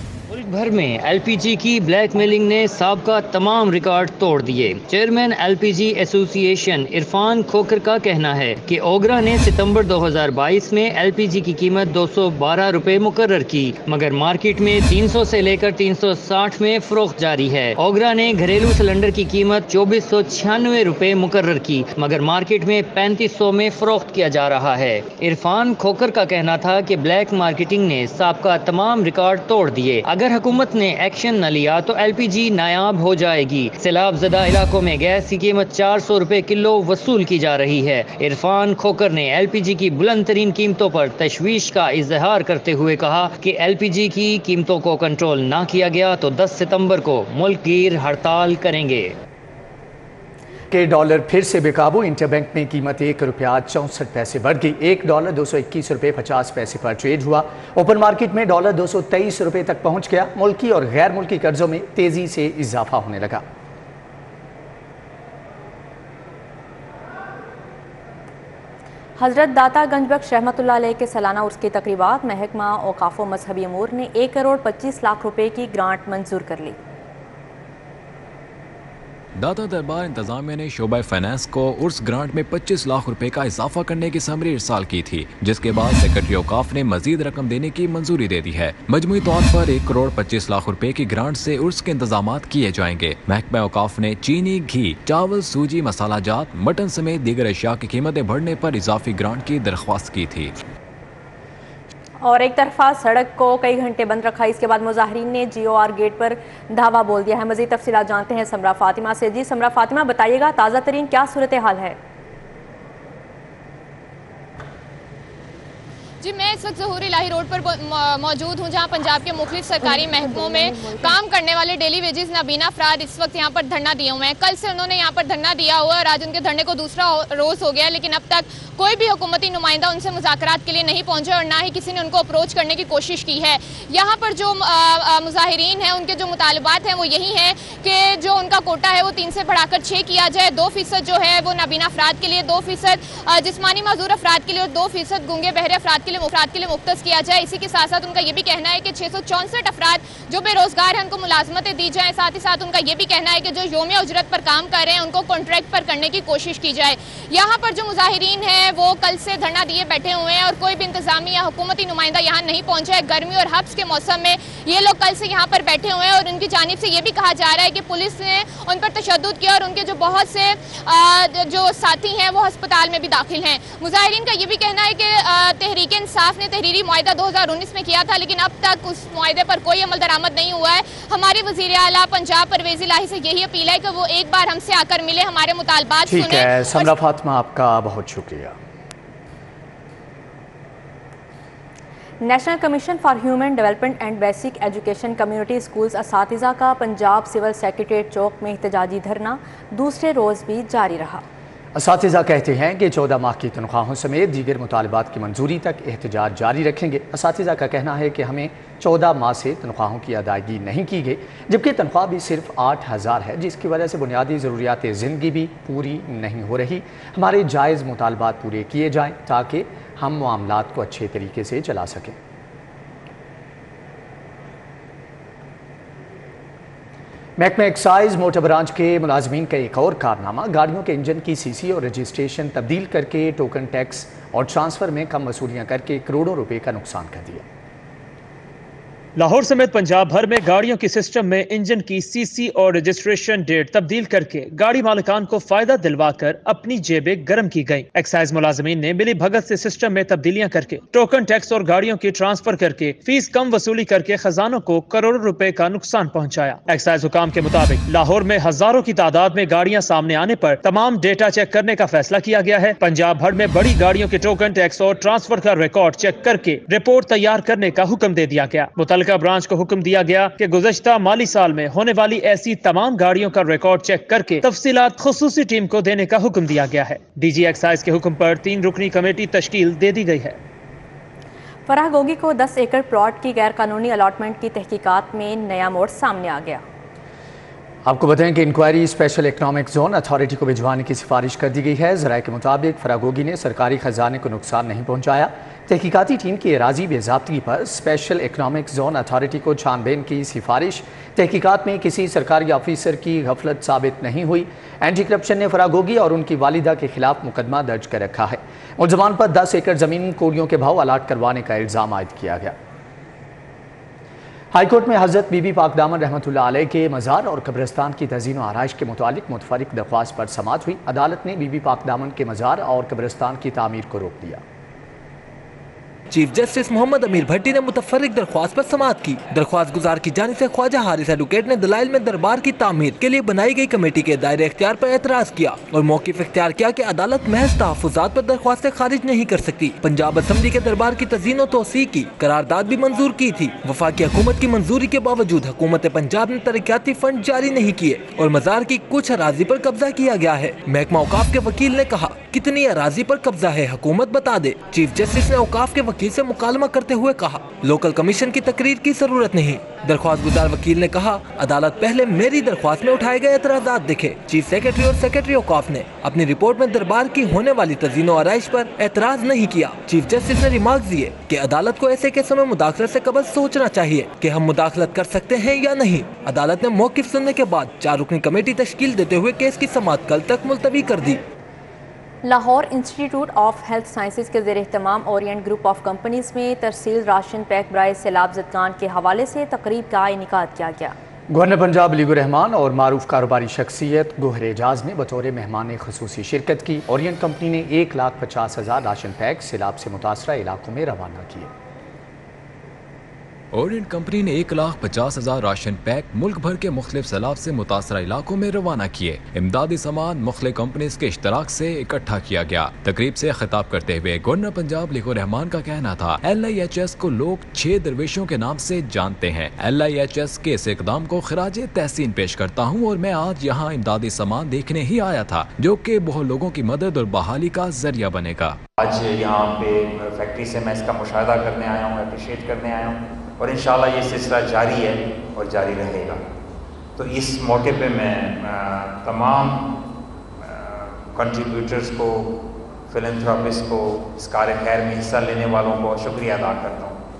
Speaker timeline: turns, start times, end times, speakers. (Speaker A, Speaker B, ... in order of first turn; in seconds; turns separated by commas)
Speaker A: 0.3-49.1, Speaker B: 50.7-63.4, Speaker C: 69.2-76.8, Speaker D: 79.4-100.5, Speaker C: 102.2-112.0, Speaker E: 116.2-186.9, Speaker C: 119.8-121.2, Speaker B: 186.1-188.5, Speaker C: 192.2-201.2, Speaker B: 201.7-222.2, Speaker B: 227.4-237.4, Speaker F: 239.2-280.4, Speaker C: 281.7-286.6, Speaker B: 287.8-312.5, Speaker B: 314.5-324.4, Speaker G: 326.1-381.2, Speaker C: 382.2-390.9, Speaker B: 391.3-401.5, Speaker D: 403.5-428.6, Speaker H: 428.8-436.2, Speaker H: 437.0-439.7, Speaker H: 440.4-442.3, Speaker H: 442.9-447.0